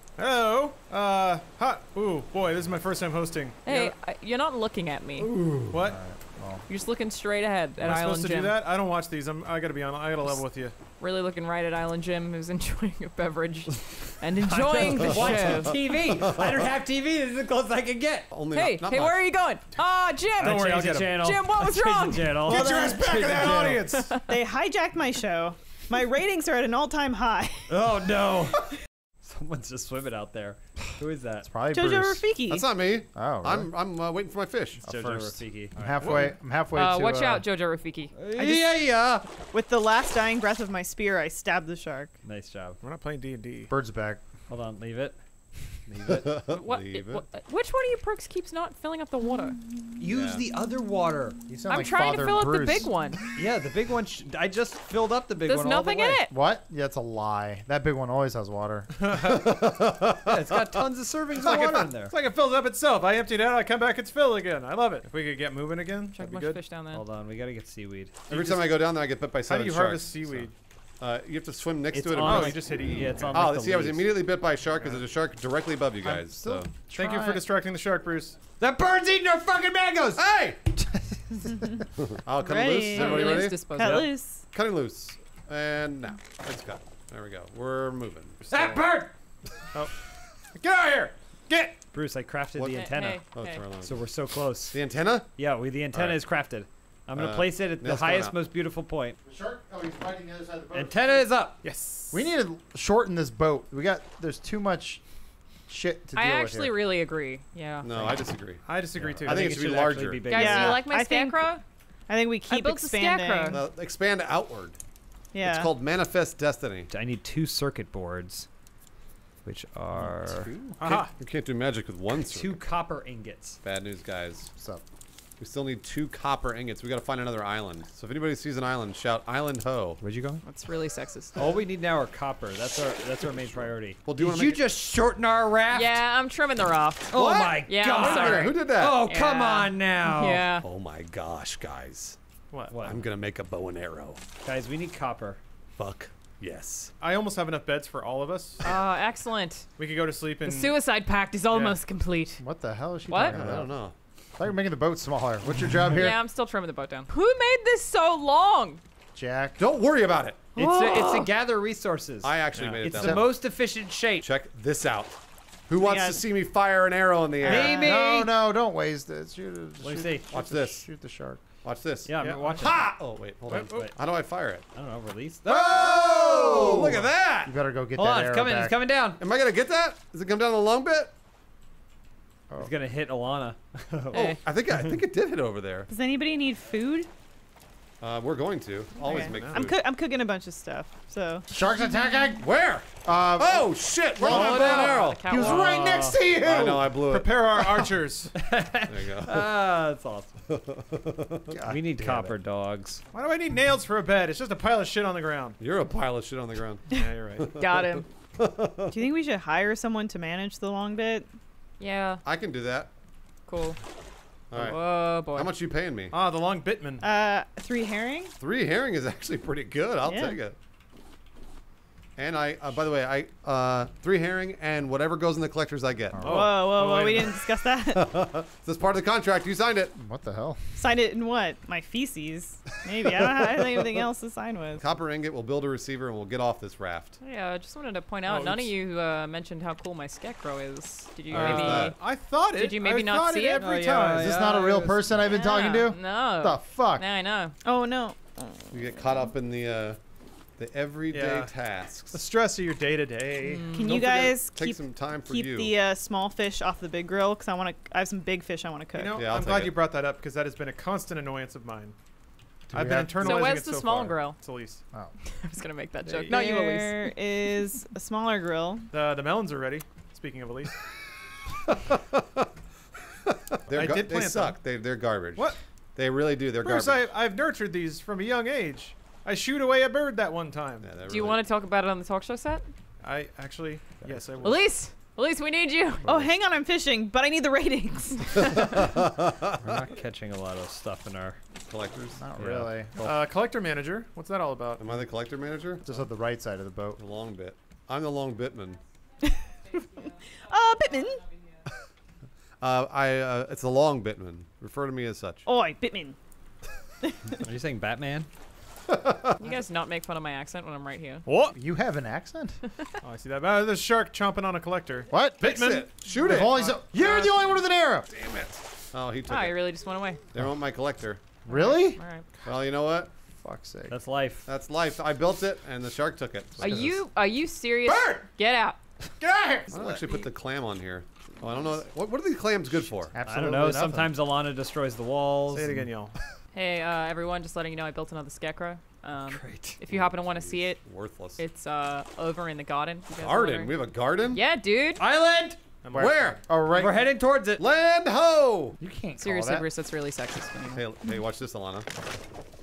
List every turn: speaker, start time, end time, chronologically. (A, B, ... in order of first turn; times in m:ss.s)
0:00.2-0:03.9 A
0:03.6-0:05.3 B
0:05.2-0:05.8 C
0:05.7-0:06.0 A
0:05.8-0:06.6 D
0:06.7-0:08.6 B
0:07.8-0:10.8 A
0:11.0-0:15.8 B
0:14.4-0:18.3 E
0:15.0-0:16.7 C
0:18.3-0:19.3 C
0:18.5-0:22.5 B
0:20.4-0:23.9 E
0:20.4-0:21.2 A
0:22.4-0:24.2 A
0:22.5-0:23.2 F
0:24.3-0:27.7 F
0:27.7-0:31.5 E
0:31.5-0:32.3 D
0:31.7-0:32.7 F
0:32.5-0:34.8 C
0:33.1-0:33.7 D
0:34.8-0:37.5 D
0:34.8-0:36.2 E
0:36.0-0:36.4 A
0:36.7-0:38.2 B
0:38.2-0:39.3 E
0:39.5-0:42.2 F
0:42.2-0:42.8 E
0:42.8-0:43.7 A
0:43.7-0:44.2 D
0:44.5-0:45.2 E
0:45.8-0:46.4 E
0:46.0-0:47.2 C
0:46.5-0:49.6 B
0:50.0-0:51.5 E
0:50.1-0:50.4 C
0:51.5-0:52.9 D
0:51.7-0:53.3 B
0:53.4-0:56.3 E
0:55.4-0:56.3 B
0:56.3-0:58.9 D
0:59.0-0:59.5 A
0:59.1-1:00.8 C
1:00.2-1:02.2 E
1:01.4-1:01.8 C
1:01.5-1:06.6 A
1:06.1-1:07.0 B
1:06.9-1:08.2 E
1:08.3-1:10.5 C
1:08.3-1:08.8 A
1:09.5-1:10.5 A
1:11.0-1:16.7 C
1:11.9-1:14.2 E
1:12.1-1:13.5 A
1:16.0-1:17.5 D
1:16.9-1:18.4 A
1:18.6-1:20.2 E
1:20.2-1:20.6 C
1:21.0-1:21.7 D
1:22.0-1:23.7 C
1:22.4-1:24.5 F
1:23.0-1:24.2 B
1:23.8-1:24.1 E
1:24.5-1:28.8 C
1:28.5-1:29.1 E
1:30.6-1:31.8 A
1:31.9-1:33.2 E
1:32.6-1:34.1 C
1:32.7-1:33.6 B
1:33.8-1:34.8 E
1:34.7-1:35.3 C
1:35.4-1:39.2 E
1:35.9-1:36.2 C
1:37.2-1:38.4 C
1:39.2-1:41.3 D
1:40.7-1:41.6 E
1:41.6-1:42.3 A
1:42.1-1:45.0 D
1:45.7-1:46.8 D
1:46.2-1:47.9 B
1:47.8-1:48.6 C
1:48.6-1:49.6 A
1:49.0-1:50.8 E
1:49.2-1:50.4 C
1:50.3-1:51.6 B
1:50.3-1:51.6 F
1:52.1-1:53.6 F
1:52.5-1:53.6 B
1:53.5-1:54.8 C
1:55.3-1:55.7 F
1:55.4-1:56.9 C
1:56.9-1:58.5 E
1:59.4-2:00.5 E
2:00.0-2:00.7 D
2:00.8-2:01.1 A
2:00.8-2:02.6 C
2:02.2-2:03.6 E
2:03.6-2:04.5 C
2:04.6-2:04.8 D
2:05.4-2:10.0 C
2:10.0-2:10.4 E
2:10.4-2:11.5 B
2:11.4-2:16.0 E
2:13.2-2:14.7 C
2:15.7-2:20.7 B
2:17.1-2:20.5 E
2:17.1-2:19.0 C
2:20.6-2:22.2 C
2:22.5-2:22.8 A
2:22.7-2:23.0 E
2:22.8-2:24.2 C
2:24.4-2:25.4 E
2:25.8-2:26.9 C
2:27.0-2:28.8 A
2:28.6-2:29.7 B
2:29.8-2:30.8 A
2:30.4-2:32.4 B
2:31.5-2:31.8 A
2:32.4-2:33.8 D
2:33.1-2:33.4 B
2:33.3-2:34.0 C
2:34.4-2:36.2 D
2:35.9-2:38.8 B
2:39.2-2:39.6 D
2:39.6-2:41.3 C
2:40.6-2:44.3 E
2:42.2-2:43.4 C
2:42.5-2:42.9 A
2:43.0-2:43.3 D
2:44.2-2:45.2 C
2:45.7-2:47.8 C
2:45.8-2:46.2 F
2:47.4-2:47.9 F
2:47.4-2:48.3 E
2:47.5-2:51.4 D
2:49.8-2:50.3 E
2:50.3-2:50.9 C
2:51.6-2:54.6 C
2:52.1-2:52.9 E
2:52.2-2:52.8 A
2:53.5-2:53.9 E
2:53.5-2:53.9 A
2:54.7-2:57.1 E
2:55.5-2:57.6 C
2:56.4-2:58.8 D
2:58.0-2:59.2 E
2:59.2-3:01.1 C
3:02.6-3:05.0 E
3:04.1-3:04.4 B
3:04.1-3:05.9 C
3:05.9-3:07.1 F
3:08.0-3:09.8 C
3:09.0-3:11.5 F
3:09.0-3:09.7 A
3:11.5-3:12.4 D
3:12.4-3:15.5 C
3:13.0-3:17.0 D
3:14.2-3:16.0 B
3:15.4-3:16.2 E
3:16.4-3:17.8 C
3:16.9-3:18.3 A
3:18.3-3:20.3 E
3:18.9-3:19.6 C
3:20.5-3:21.5 C
3:21.5-3:22.4 D
3:21.7-3:23.0 E
3:23.1-3:25.6 A
3:25.6-3:29.0 C
3:26.9-3:27.5 A
3:27.6-3:28.1 B
3:28.9-3:31.3 F
3:31.8-3:32.2 B
3:32.2-3:32.9 C
3:33.5-3:33.8 B
3:34.5-3:36.2 C
3:34.5-3:35.5 B
3:36.1-3:37.0 A
3:37.0-3:38.3 F
3:38.4-3:40.6 C
3:40.0-3:40.4 F
3:42.2-3:46.4 C
3:46.1-3:46.5 D
3:46.2-3:47.5 A
3:46.2-3:48.1 F
3:47.9-3:49.9 C
3:50.0-3:50.8 D
3:50.8-3:54.8 F
3:54.8-3:57.2 C
3:57.2-4:02.0 B
3:58.2-3:58.7 A
4:01.3-4:02.0 C
4:01.3-4:04.5 A
4:02.5-4:04.1 B
4:03.6-4:05.2 E
4:04.2-4:07.0 D
4:05.2-4:07.6 B
4:07.6-4:09.0 F
4:08.7-4:10.0 C
4:10.6-4:12.2 C
4:11.1-4:11.5 A
4:12.1-4:14.4 A
4:13.4-4:14.0 B
4:13.8-4:19.2 F
4:13.9-4:15.8 C
4:18.9-4:22.0 A
4:19.1-4:19.8 C
4:22.7-4:24.8 A
4:22.7-4:23.5 D
4:23.2-4:24.4 B
4:25.2-4:27.2 B
4:26.0-4:26.5 A
4:26.3-4:28.9 F
4:28.9-4:30.8 A
4:31.7-4:32.5 C
4:33.3-4:37.1 C
4:33.7-4:34.6 A
4:36.6-4:40.9 A
4:40.8-4:41.5 C
4:41.1-4:42.6 B
4:43.0-4:44.7 A
4:44.4-4:46.2 B
4:46.0-4:46.3 D
4:46.0-4:48.7 F
4:48.4-4:48.7 B
4:48.7-4:49.8 C
4:49.6-4:51.4 E
4:51.7-4:52.2 C
4:52.2-4:53.2 D
4:52.4-4:52.7 E
4:53.0-4:54.9 A
4:54.8-4:55.9 C
4:55.8-4:57.0 D
4:57.0-4:58.8 C
4:59.2-5:01.3 F
5:02.6-5:05.5 C
5:05.5-5:06.2 F
5:07.0-5:07.3 F
5:07.4-5:08.3 E
5:08.9-5:09.4 C
5:09.4-5:11.2 B
5:11.3-5:11.6 A
5:11.5-5:12.6 D
5:13.0-5:17.1 A
5:15.1-5:15.7 D
5:15.4-5:16.7 C
5:16.2-5:18.1 D
5:18.1-5:19.7 C
5:19.3-5:20.2 B
5:20.3-5:21.4 C
5:21.5-5:22.0 D
5:21.5-5:22.3 B
5:22.4-5:23.1 C
5:23.4-5:24.0 D
5:23.9-5:24.5 E
5:24.5-5:26.9 C
5:26.6-5:27.0 D
5:26.6-5:28.8 B
5:27.9-5:28.2 D
5:29.2-5:30.0 D
5:29.7-5:33.2 C
5:33.1-5:34.2 D
5:33.2-5:35.9 E
5:35.5-5:36.2 A
5:36.5-5:40.8 B
5:39.3-5:39.8 E
5:39.9-5:41.4 C
5:41.4-5:45.0 B
5:43.1-5:44.4 C
5:45.0-5:45.6 E
5:45.8-5:46.4 A
5:45.9-5:46.4 C
5:46.4-5:47.0 D
5:46.7-5:47.6 E
5:47.6-5:48.8 C
5:48.8-5:49.7 D
5:49.2-5:50.9 B
5:50.6-5:51.9 C